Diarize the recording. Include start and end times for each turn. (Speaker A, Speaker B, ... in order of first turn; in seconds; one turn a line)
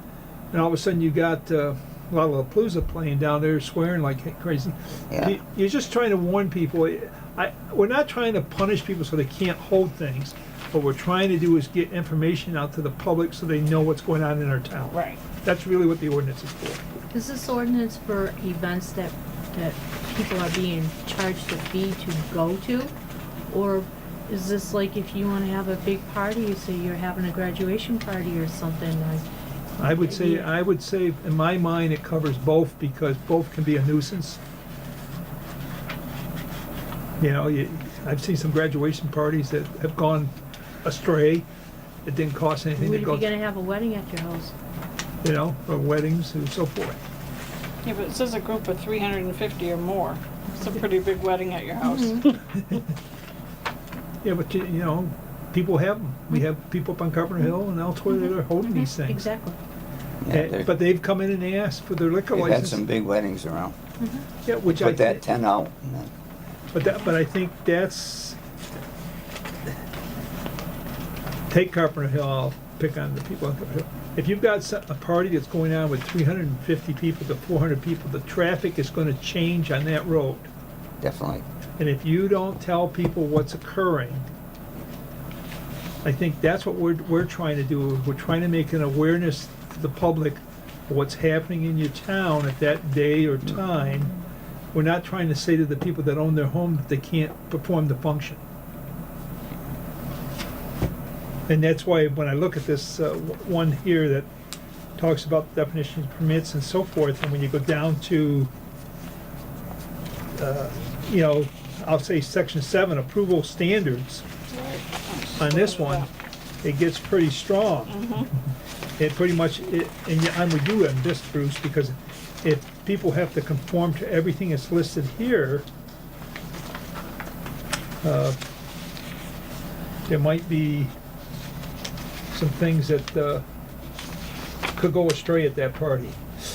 Speaker A: 0.5-16.8
Speaker B: 5.1-5.4
Speaker C: 14.9-15.2
Speaker D: 17.1-22.9
Speaker D: 23.5-29.2
Speaker A: 29.8-34.4
Speaker D: 29.8-30.5
Speaker A: 37.2-40.3
Speaker A: 40.8-41.5
Speaker A: 42.0-43.3
Speaker D: 42.8-44.5
Speaker A: 45.2-47.0
Speaker C: 47.8-52.4
Speaker D: 51.8-52.3
Speaker A: 52.5-52.8
Speaker A: 54.2-59.2
Speaker D: 58.1-59.6
Speaker B: 60.2-60.8
Speaker A: 60.3-62.8
Speaker B: 62.3-63.8
Speaker D: 64.0-64.2
Speaker A: 64.4-65.2
Speaker B: 64.7-66.1
Speaker A: 66.7-68.4
Speaker A: 71.5-80.5
Speaker B: 81.0-81.4
Speaker A: 81.8-84.3
Speaker A: 86.0-94.2
Speaker A: 94.7-98.4
Speaker A: 101.5-104.3
Speaker A: 105.0-108.5
Speaker A: 110.3-114.2
Speaker C: 114.5-116.1
Speaker A: 115.4-116.1
Speaker A: 116.6-118.0
Speaker C: 117.9-118.3
Speaker A: 119.0-125.6
Speaker A: 128.0-128.4
Speaker A: 130.1-130.9
Speaker A: 132.3-133.4
Speaker A: 134.8-136.2